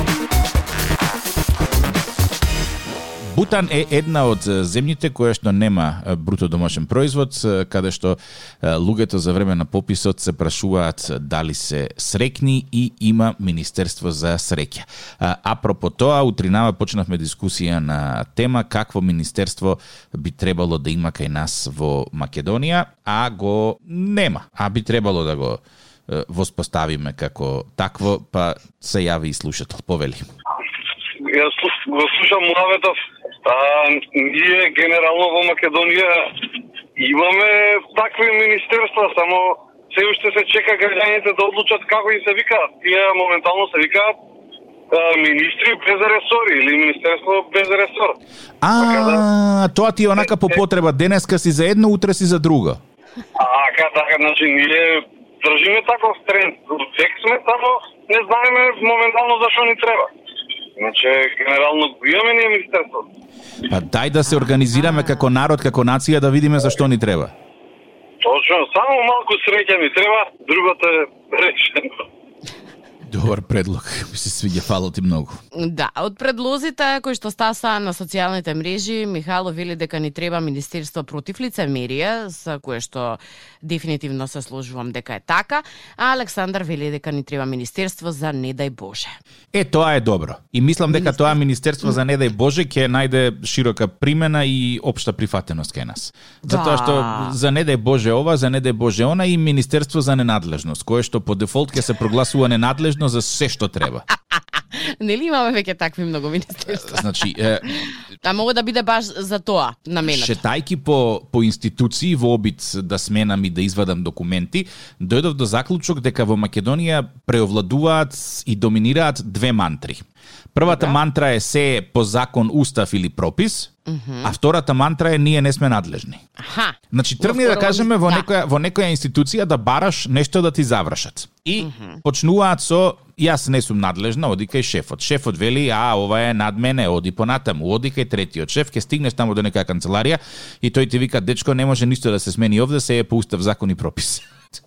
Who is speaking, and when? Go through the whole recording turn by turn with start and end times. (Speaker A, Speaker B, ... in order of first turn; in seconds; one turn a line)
Speaker A: 3.2-30.2
Speaker B: 31.2-44.1
Speaker B: 44.9-48.1
Speaker A: 48.6-52.8
Speaker B: 48.8-49.2
Speaker B: 53.4-60.1
Speaker B: 60.8-63.0
Speaker A: 63.6-67.3
Speaker C: 64.2-65.2
Speaker B: 68.2-72.0
Speaker A: 73.1-75.4
Speaker C: 75.5-89.1
Speaker A: 89.5-104.0
Speaker C: 90.9-91.3
Speaker C: 96.4-97.3
Speaker C: 104.7-107.1
Speaker A: 106.7-107.7
Speaker C: 108.2-110.4
Speaker A: 110.0-123.7
Speaker C: 120.6-121.0
Speaker C: 123.9-124.3
Speaker A: 124.2-126.2
Speaker C: 126.4-128.3
Speaker A: 126.9-144.3
Speaker C: 131.6-132.0